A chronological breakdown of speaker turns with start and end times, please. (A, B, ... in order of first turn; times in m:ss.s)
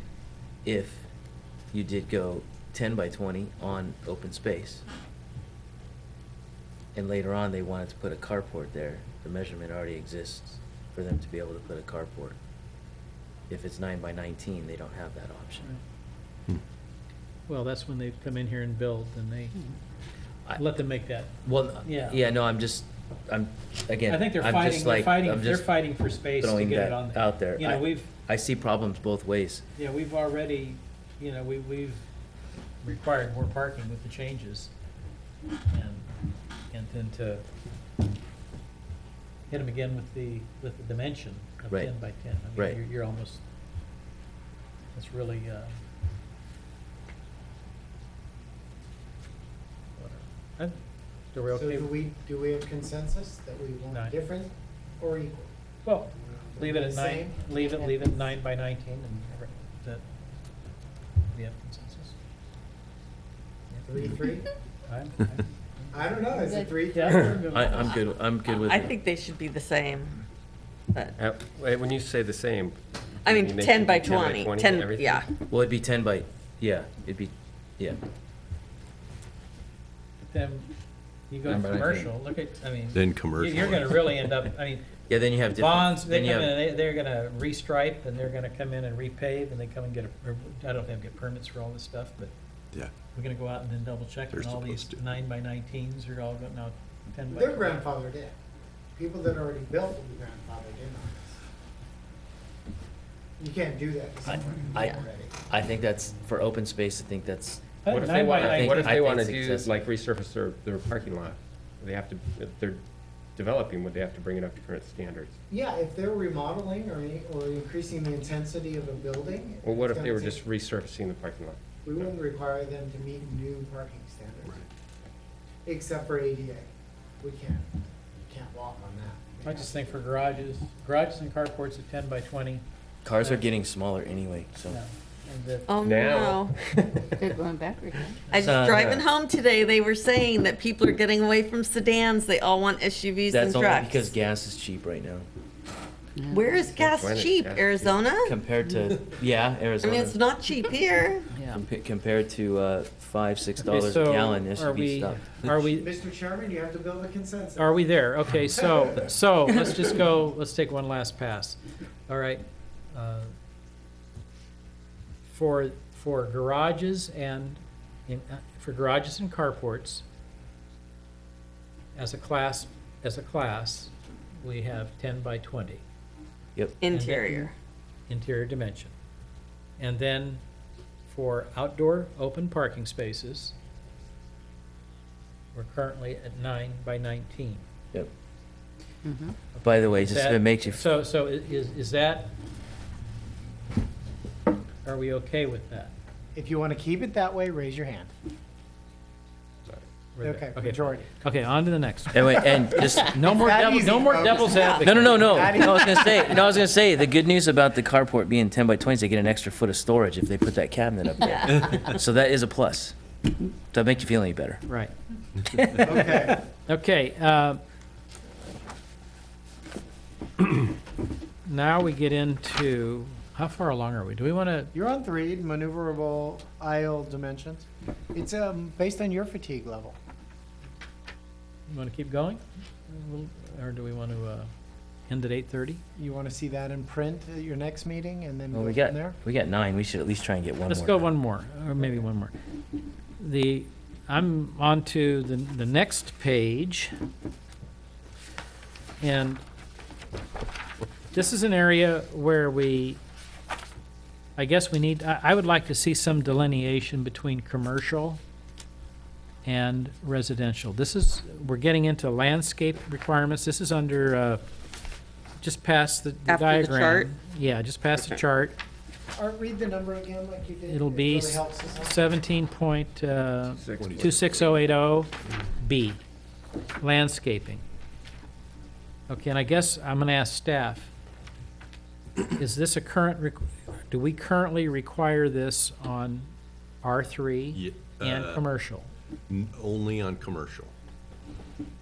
0:00.6-0:01.1 A
0:01.7-0:04.8 A
0:06.9-0:12.4 A
0:13.5-0:15.7 A
0:17.5-0:19.6 B
0:20.5-0:20.8 A
0:20.6-0:22.2 B
0:21.4-0:25.8 A
0:24.1-0:28.1 B
0:26.4-0:29.6 A
0:29.8-0:32.0 B
0:32.8-0:34.7 B
0:35.7-0:36.1 B
0:36.7-0:37.4 B
0:39.5-0:43.4 B
0:44.9-0:45.7 B
0:50.0-0:50.8 B
0:51.3-0:51.9 B
0:51.5-0:55.5 C
0:55.8-1:00.0 B
0:56.2-0:57.8 C
1:01.3-1:02.2 B
1:03.9-1:04.5 C
1:04.9-1:06.2 B
1:05.9-1:07.9 C
1:06.3-1:06.9 D
1:06.9-1:07.8 B
1:07.5-1:08.9 A
1:08.5-1:10.2 E
1:11.2-1:15.3 F
1:13.2-1:15.3 E
1:15.5-1:18.0 A
1:20.3-1:20.7 B
1:21.3-1:24.9 B
1:21.4-1:22.1 A
1:22.9-1:24.2 G
1:25.1-1:26.6 A
1:25.5-1:32.3 B
1:33.1-1:37.9 B
1:34.3-1:35.0 G
1:37.3-1:38.3 C
1:39.0-1:41.4 C
1:43.4-1:45.4 C
1:44.3-1:47.8 A
1:47.8-1:49.0 B
1:47.9-1:52.8 F
1:48.4-1:49.7 A
1:53.4-1:55.4 F
1:55.5-2:00.4 C
1:59.6-2:02.1 F
2:01.8-2:04.7 C
2:05.6-2:06.7 C
2:07.2-2:09.9 C
2:09.4-2:12.6 B
2:13.0-2:14.8 A
2:14.7-2:15.7 B
2:15.7-2:16.5 E
2:15.8-2:17.4 F
2:17.2-2:18.2 D
2:18.3-2:24.1 E
2:18.4-2:19.0 A
2:18.4-2:19.0 F
2:23.3-2:25.3 A
2:26.2-2:26.7 D
2:26.3-2:28.4 E
2:26.8-2:28.1 F
2:28.2-2:30.2 A
2:29.8-2:31.3 E
2:31.4-2:35.5 A
2:33.6-2:35.9 B
2:35.8-2:37.8 C
2:37.6-2:43.3 B
2:38.6-2:39.0 C
2:45.3-2:50.0 B
2:52.0-2:55.8 B
2:56.8-2:57.5 E
2:56.9-2:57.5 B
2:58.1-2:58.9 B
2:59.8-3:00.4 B
3:01.1-3:03.5 B
3:05.5-3:07.6 B
3:09.0-3:09.4 D
3:09.6-3:12.3 B
3:09.6-3:10.9 A
3:14.8-3:15.9 B
3:16.4-3:18.1 C
3:20.2-3:25.5 B
3:20.2-3:21.1 C
3:22.1-3:23.4 A
3:23.4-3:26.4 C
3:24.3-3:24.9 E
3:24.8-3:33.0 A
3:31.2-3:31.8 E
3:33.5-3:34.6 A
3:34.7-3:37.6 B
3:35.8-3:36.4 C
3:41.4-3:44.7 B
3:44.7-3:50.0 C
3:51.7-3:54.5 B
3:55.1-3:55.8 B
3:56.0-3:59.2 C
3:58.5-4:01.1 A
4:00.7-4:02.3 B
4:03.2-4:06.9 B
4:09.0-4:09.4 B
4:11.1-4:13.0 B
4:14.4-4:18.2 B
4:19.4-4:24.4 B
4:25.4-4:28.6 B
4:26.3-4:27.1 E
4:29.2-4:32.0 C
4:30.7-4:36.0 B
4:33.6-4:34.1 F
4:33.7-4:34.6 G
4:36.8-4:37.6 B
4:39.1-4:40.9 B
4:42.4-4:48.9 B
4:47.5-4:48.5 G
4:49.3-4:50.7 G